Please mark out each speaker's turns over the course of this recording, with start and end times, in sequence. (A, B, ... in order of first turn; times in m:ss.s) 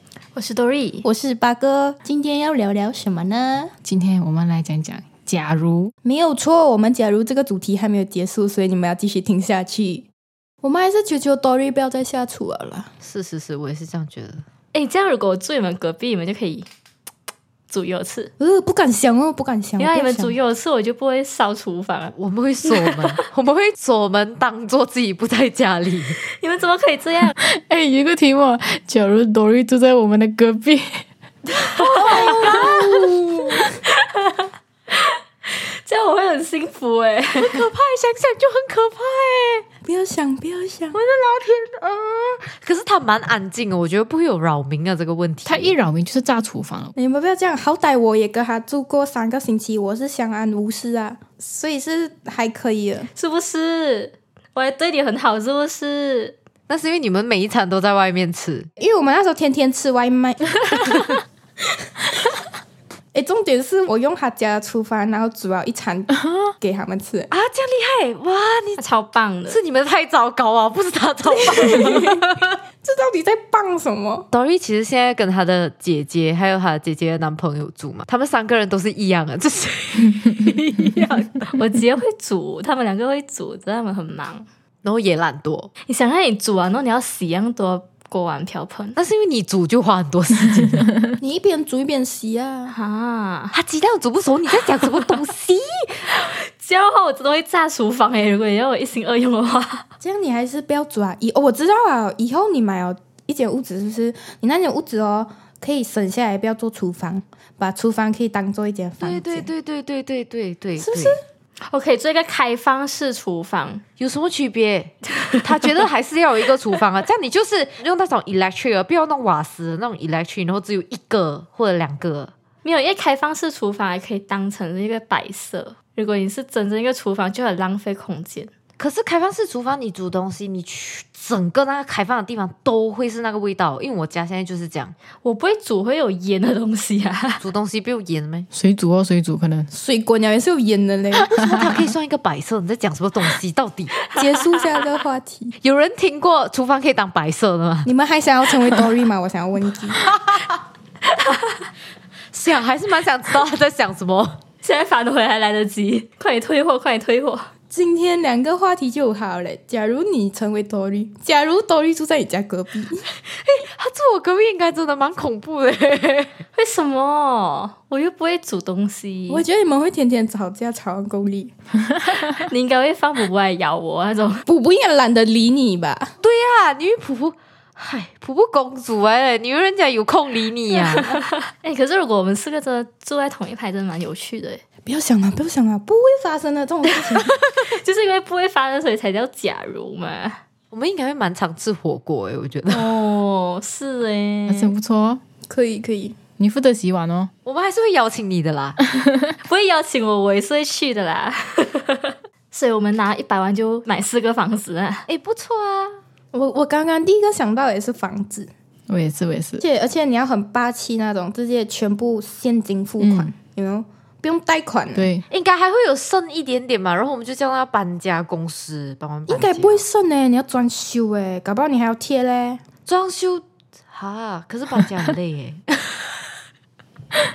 0:00.4-0:01.1 A
0:01.0-0:03.7 B
0:03.8-0:05.9 C
0:06.0-0:10.1 B
0:10.6-0:12.9 B
0:13.0-0:14.4 D
0:14.7-0:16.7 A
0:17.7-0:18.3 A
0:18.4-0:20.4 B
0:19.8-0:22.2 A
0:22.2-0:26.2 D
0:22.7-0:23.0 A
0:26.3-0:27.4 A
0:27.4-0:31.0 C
0:31.8-0:33.0 D
0:31.9-0:33.7 B
0:32.0-0:32.5 A
0:34.0-0:34.4 A
0:35.0-0:37.6 A
0:37.4-0:39.7 D
0:39.8-0:41.0 B
0:40.9-0:45.7 D
0:45.5-0:46.9 C
0:47.0-0:53.1 B
0:53.2-0:56.4 A
0:56.7-0:58.7 D
0:58.8-1:00.8 B
1:03.1-1:07.3 B
1:07.3-1:08.8 D
1:08.8-1:09.6 A
1:09.5-1:12.5 D
1:11.3-1:12.2 B
1:12.8-1:14.3 B
1:14.3-1:21.5 D
1:21.5-1:24.5 A
1:24.8-1:25.7 D
1:25.9-1:29.0 A
1:29.0-1:30.9 D
1:31.2-1:32.8 B
1:32.7-1:33.5 A
1:33.5-1:36.0 D
1:36.1-1:39.8 A
1:40.0-1:49.5 B
1:49.0-1:51.2 D
1:50.8-1:51.2 B
1:51.7-1:53.8 A
1:54.0-2:02.3 D
2:02.6-2:08.5 A
2:08.8-2:14.9 D
2:15.2-2:17.4 A
2:17.4-2:18.5 D
2:18.5-2:19.7 C
2:19.7-2:21.3 B
2:21.2-2:24.0 D
2:24.0-2:24.9 A
2:24.1-2:25.6 B
2:25.6-2:27.9 D
2:27.8-2:30.0 B
2:30.0-2:30.6 D
2:32.3-2:34.4 D
2:34.6-2:37.5 A
2:37.7-2:43.0 B
2:43.3-2:46.3 D
2:46.6-2:49.4 A
2:49.3-2:51.5 B
2:52.1-2:54.4 A
2:54.5-2:56.1 B
2:56.2-3:01.2 D
3:01.0-3:04.6 A
3:04.9-3:07.4 B
3:07.6-3:10.4 A
3:10.7-3:12.9 D
3:12.7-3:14.8 A
3:14.5-3:15.2 C
3:15.5-3:16.2 B
3:16.4-3:17.3 C
3:17.4-3:18.8 D
3:18.9-3:19.4 C
3:19.4-3:25.1 A
3:25.1-3:26.0 D
3:26.3-3:28.5 B
3:28.9-3:29.6 C
3:29.6-3:35.1 B
3:33.0-3:33.3 C
3:35.0-3:35.2 C
3:35.3-3:39.8 D
3:39.3-3:42.6 B
3:42.9-3:46.0 D